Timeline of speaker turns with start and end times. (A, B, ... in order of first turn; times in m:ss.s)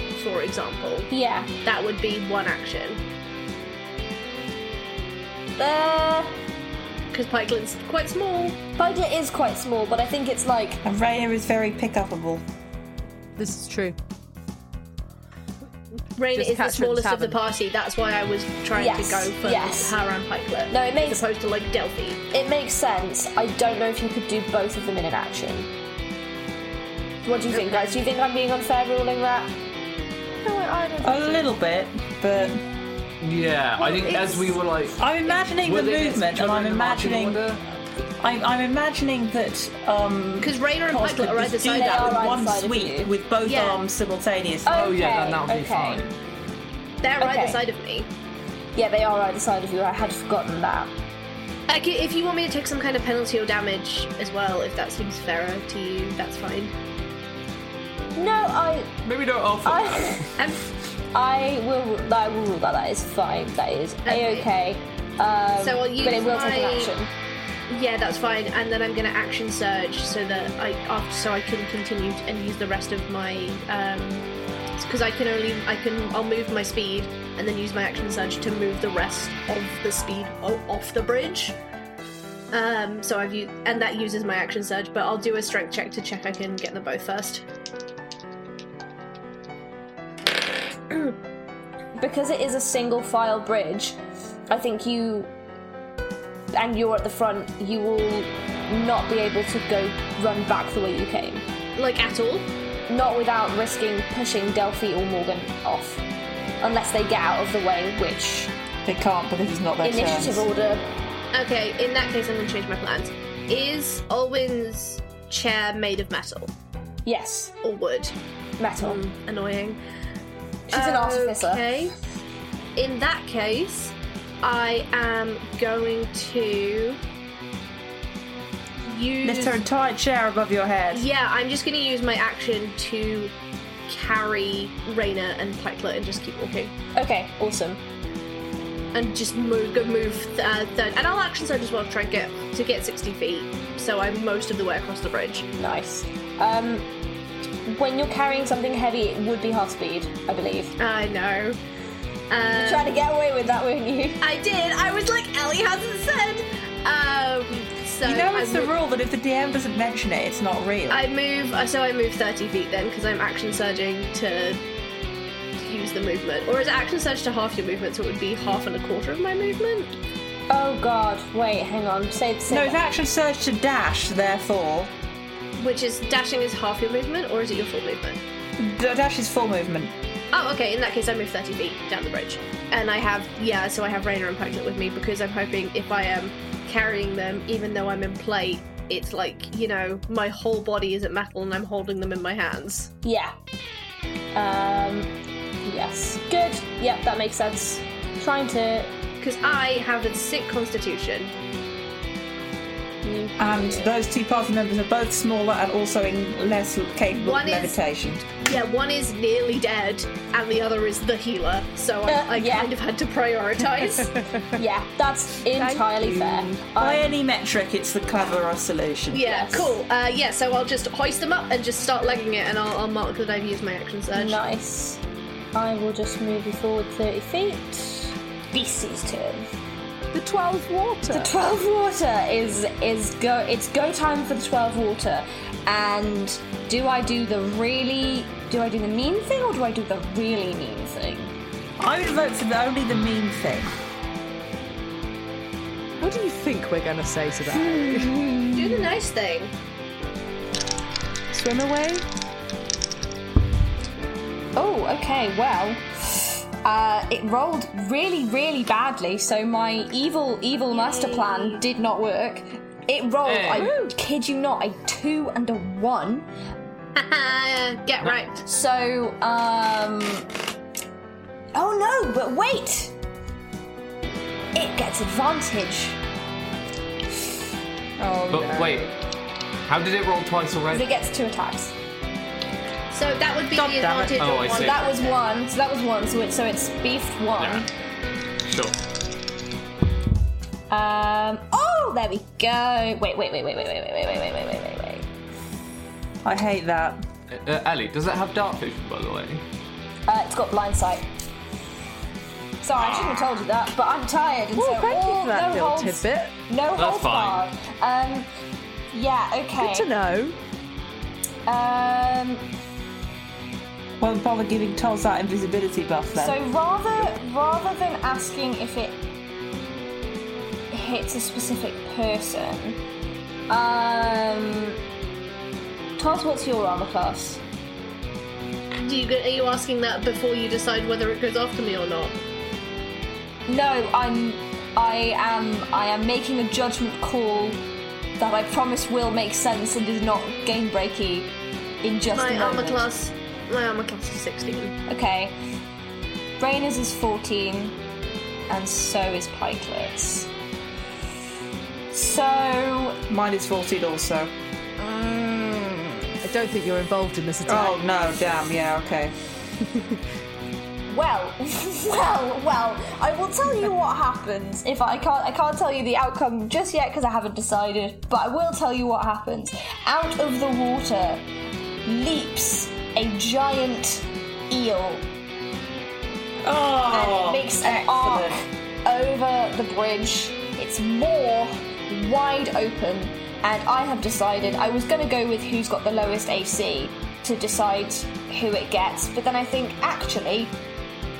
0:00.2-0:01.1 A
0:01.1-0:01.5 B
0:01.6-0:03.0 A
0:05.6-0:06.3 B
0:07.1-0:08.6 A
0:08.8-0:10.8 B
0:10.8-0:12.4 C
0:13.4-0:14.0 D
0:16.2-0:22.2 A
0:16.3-0:17.4 D
0:18.8-0:20.0 B
0:20.7-0:21.2 B
0:22.3-0:25.7 B
0:27.3-0:29.5 B
0:27.5-0:28.0 A
0:30.4-0:31.4 D
0:31.0-0:32.6 C
0:33.2-0:37.6 E
0:33.8-0:34.6 D
0:35.0-0:37.4 C
0:38.2-0:44.9 C
0:40.4-0:42.2 A
0:41.6-0:43.1 B
0:43.4-0:43.8 A
0:44.6-0:46.0 B
0:44.7-0:46.1 E
0:47.0-0:48.1 A
0:47.2-0:47.6 B
0:48.8-0:50.9 B
0:51.7-0:56.7 A
0:58.2-0:59.0 B
0:59.0-1:00.3 E
0:59.6-1:00.3 B
1:00.4-1:00.7 A
1:01.1-1:07.1 B
1:04.1-1:04.5 A
1:05.6-1:06.9 A
1:07.7-1:14.3 A
1:14.8-1:21.6 A
1:22.5-1:27.4 A
1:32.0-1:34.0 B
1:34.5-1:35.3 B
1:36.5-1:41.4 B
1:41.8-1:42.5 A
1:42.9-1:46.0 B
1:46.6-1:48.5 B
1:48.9-1:50.5 C
1:49.8-1:50.9 B
1:51.3-1:56.5 A
1:57.1-1:57.5 B
1:57.6-1:58.1 A
1:58.6-1:59.0 B
1:58.8-1:59.8 A
2:00.7-2:01.6 B
2:00.7-2:01.9 A
2:02.8-2:07.0 A
2:08.8-2:09.6 A
2:09.2-2:11.0 C
2:10.9-2:13.3 A
2:13.9-2:16.7 A
2:17.0-2:17.8 B
2:18.9-2:25.5 A
2:25.6-2:26.9 B
2:27.7-2:30.7 B
2:30.8-2:31.6 A
2:32.3-2:32.9 A
2:32.6-2:34.2 B
2:34.2-2:38.7 A
2:38.0-2:41.0 C
2:40.9-2:44.6 A
2:45.6-2:49.9 A
2:50.5-2:52.8 B
2:52.5-2:54.9 C
2:55.6-2:58.2 A
2:58.6-2:59.9 C
3:00.3-3:12.9 A
3:13.0-3:13.3 B
3:14.3-3:15.1 B
3:15.6-3:18.9 B
3:19.2-3:21.3 A
3:23.0-3:23.9 B
3:23.4-3:28.2 C
3:27.2-3:27.8 A
3:28.4-3:34.1 A
3:32.1-3:32.7 B
3:34.6-3:37.2 B
3:35.5-3:36.0 D
3:36.2-3:39.3 C
3:39.1-3:44.4 A
3:39.2-3:39.7 B
3:44.1-3:45.0 B
3:45.5-3:49.5 B
3:50.1-3:51.3 D
3:51.1-4:01.4 B
4:01.8-4:03.7 C
4:06.0-4:08.2 D
4:07.5-4:08.9 B
4:08.5-4:09.5 A
4:11.3-4:12.0 D
4:14.6-4:26.3 B
4:20.7-4:21.6 A
4:23.2-4:23.7 E
4:27.0-4:28.4 A
4:28.4-4:30.3 B
4:31.6-4:32.9 B
4:34.5-4:36.0 B
4:38.0-4:38.9 D
4:38.3-4:38.9 E
4:39.7-4:40.9 E
4:40.7-4:41.7 B
4:42.9-4:45.2 A
4:43.5-4:44.5 C
4:44.2-4:44.8 E
4:44.6-4:47.7 B
4:47.4-4:47.7 E
4:48.4-4:48.8 E
4:50.7-4:55.1 B
4:56.2-4:57.0 C
4:57.3-4:59.4 E
5:00.1-5:01.1 B
5:02.6-5:08.3 B
5:02.8-5:03.3 E
5:04.6-5:06.3 D
5:06.8-5:07.5 E
5:08.9-5:09.9 B
5:09.6-5:10.4 D
5:11.5-5:12.4 B
5:14.0-5:16.4 C
5:16.2-5:19.0 B
5:20.7-5:22.8 B
5:23.5-5:24.8 B
5:26.0-5:27.4 B
5:28.8-5:32.2 A
5:33.5-5:37.6 B
5:38.2-5:41.3 B
5:41.8-5:42.9 B
5:42.1-5:44.7 A
5:44.9-5:45.4 B
5:46.4-5:47.8 B
5:48.5-5:50.3 B
5:51.9-5:53.0 B
5:53.1-5:54.3 C
5:54.8-5:56.1 B
5:56.2-5:57.8 D
5:57.5-5:59.1 C
6:00.9-6:11.2 B
6:11.9-6:15.1 B
6:16.4-6:18.4 C
6:16.9-6:30.6 B